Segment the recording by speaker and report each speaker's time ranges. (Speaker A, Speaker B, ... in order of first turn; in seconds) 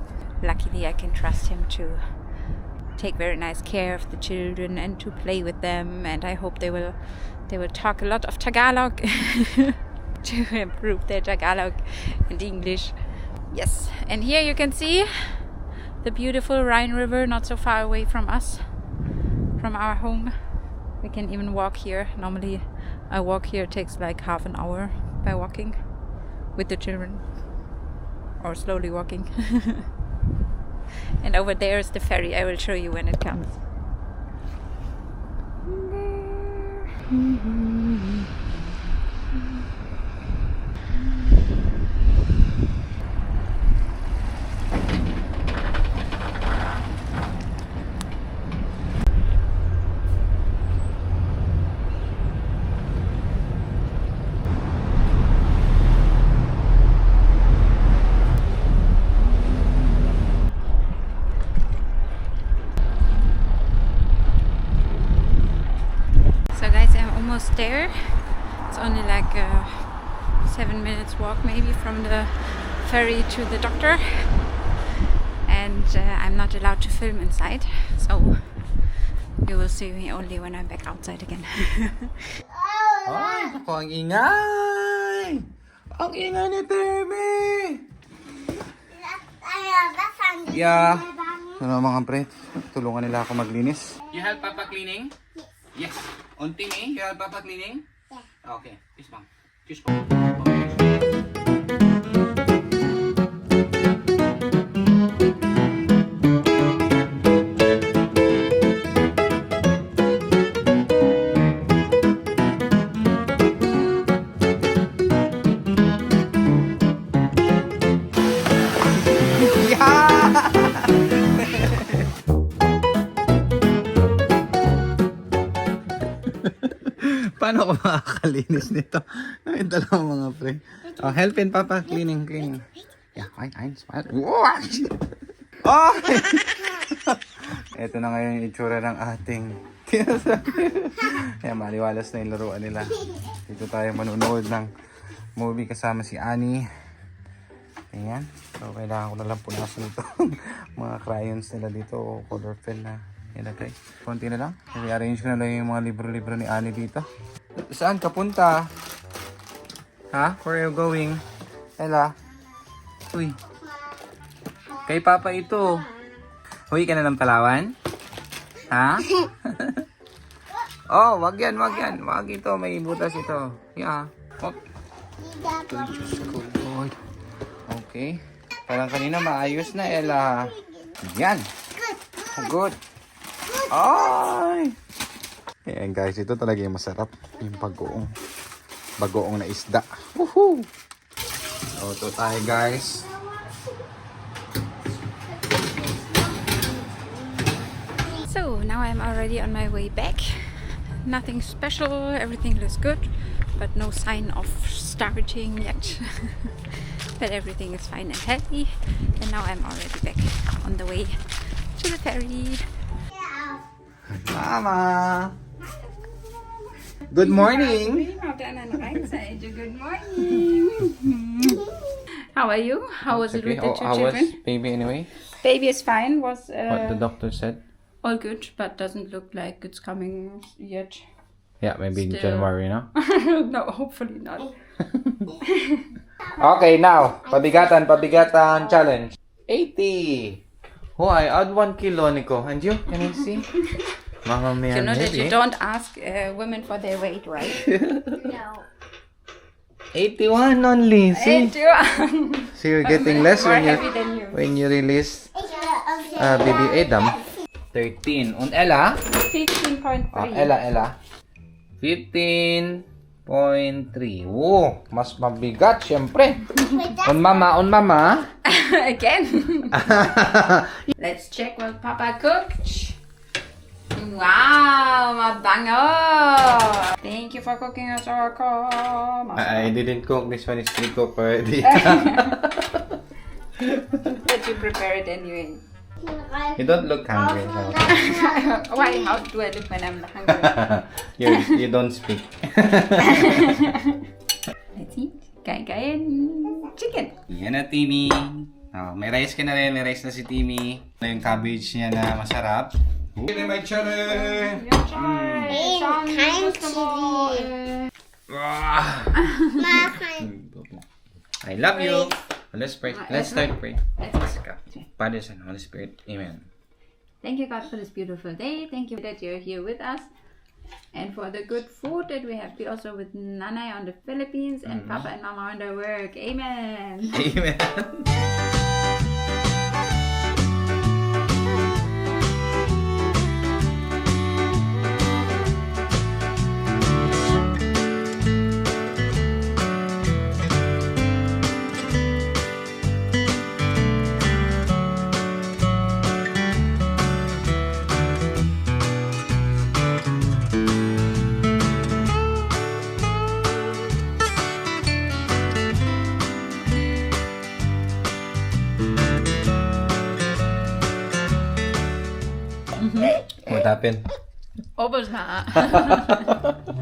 Speaker A: 0.4-27.8, 28.4-29.9, 31.2-33.6, 35.6-37.9, 66.5-74.8, 75.4-82.3, 198.2-212.9, 216.0-221.7, 222.3-224.3, 225.4-227.0, 228.0-231.1, 231.9-234.6, 235.4-235.9, 242.9-243.9, 244.7-247.7, 251.1-254.4, 259.1-260.5, 266.6-266.9, 268.4-269.7, 271.0-273.0, 273.9-279.7, 281.6-282.4, 284.1-285.6, 287.9-291.6, 293.0-294.0, 294.7-297.1, 303.4-307.9, 309.2-309.9, 312.9-314.8, 317.2-320.1, 320.9-327.2, 362.8-363.2, 364.8-366.3
Speaker B: 82.4-83.6, 88.8-91.6, 94.1-94.5, 175.2-176.3, 179.3-180.9, 181.8-182.5, 193.1-193.6, 195.4-197.4, 213.1-213.6, 248.1-248.6, 255.3-257.2, 266.6-267.4, 286.0-289.2, 305.5-307.5, 309.6-310.3
Speaker C: 83.0-87.8, 90.5-91.0, 91.6-95.1, 95.7-97.8, 98.4-100.9, 119.2-122.1, 126.2-135.0, 135.6-144.7, 145.4-146.7, 147.9-157.1, 157.7-158.7, 160.1-161.2, 161.8-162.1, 163.1-163.4, 164.8-165.8, 166.7-167.7, 168.7-169.8, 170.9-174.6, 175.7-176.9, 177.7-181.4, 182.3-182.8, 183.7-184.7, 185.7-188.1, 189.0-190.7, 191.7-193.1, 214.1-215.3, 217.1-218.1, 223.1-225.1, 226.7-227.6, 231.6-232.9, 234.9-235.2, 236.3-240.4, 241.0-243.5, 244.2-245.4, 247.5-248.2, 249.9-251.5, 252.5-255.3, 256.1-257.2, 257.7-259.0, 260.1-260.9, 261.8-266.5, 267.0-268.3, 269.7-270.8, 279.3-283.0, 283.6-284.1, 286.6-288.0, 290.3-293.6, 297.3-305.7, 308.3-309.2, 310.2-310.8, 311.4-316.4, 324.6-325.1, 327.1-328.1, 363.4-364.1, 365.9-366.6